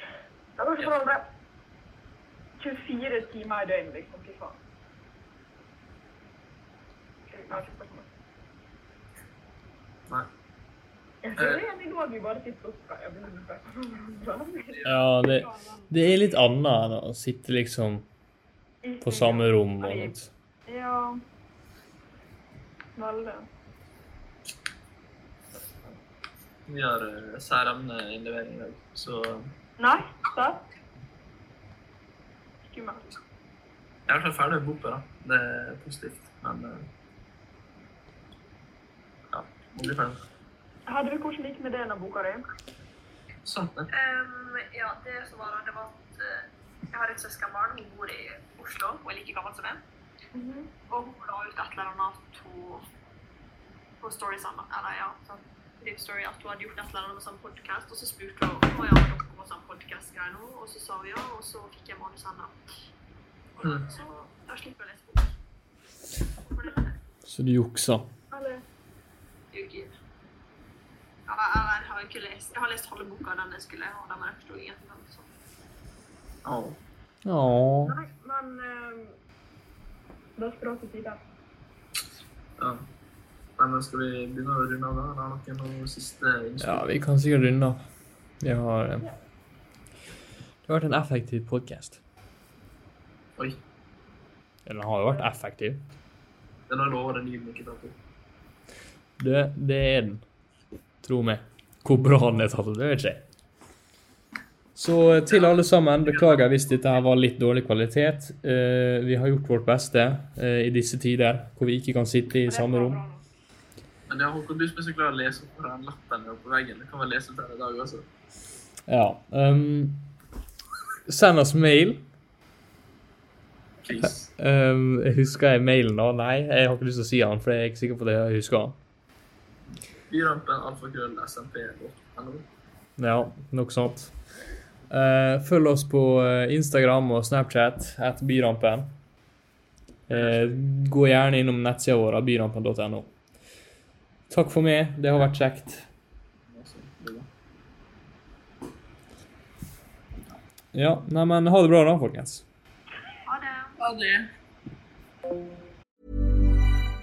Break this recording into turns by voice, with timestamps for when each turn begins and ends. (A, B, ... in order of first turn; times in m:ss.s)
0:00.6-0:01.3 A
0:02.6-0:04.6 A
0:07.3-0:08.1 A
0:11.2-0:15.9 A
0:11.4-0:11.6 B
0:14.7-0:15.0 B
0:14.9-0:18.0 C
0:18.8-0:20.2 A
0:19.0-0:20.3 C
0:20.7-0:21.2 A
0:23.0-0:23.5 A
0:26.7-0:29.5 B
0:29.8-0:30.7 A
0:32.6-0:33.2 A
0:34.1-0:36.9 B
0:39.3-0:40.2 B
0:40.9-0:42.4 A
0:43.4-0:43.9 B
0:43.9-0:49.8 D
0:50.3-0:50.7 A
0:50.9-0:52.8 D
0:54.0-1:02.6 D
1:03.6-1:05.4 D
1:06.4-1:07.0 D
1:07.3-1:08.1 C
1:08.3-1:08.6 A
1:09.5-1:09.9 D
1:11.3-1:15.3 D
1:16.4-1:16.8 B
1:17.2-1:18.0 C
1:17.8-1:19.2 A
1:20.4-1:21.2 A
1:22.6-1:22.8 B
1:23.6-1:26.8 B
1:26.6-1:27.8 C
1:28.4-1:29.1 C
1:30.7-1:32.0 C
1:34.7-1:35.8 C
1:36.7-1:38.0 B
1:39.2-1:40.2 C
1:41.0-1:43.2 C
1:44.8-1:53.0 C
1:45.3-1:46.4 B
1:52.5-1:53.2 A
1:54.1-1:58.1 B
1:58.9-2:00.1 C
2:01.1-2:02.1 C
2:03.8-2:04.3 B
2:04.0-2:08.8 C
2:10.1-2:12.5 B
2:13.0-2:14.1 C
2:14.9-2:18.9 C
2:20.1-2:23.1 C
2:20.1-2:20.5 B
2:24.3-2:25.8 C
2:26.5-2:27.3 B
2:30.7-2:32.4 C
2:33.3-2:33.8 D
2:33.8-2:34.3 B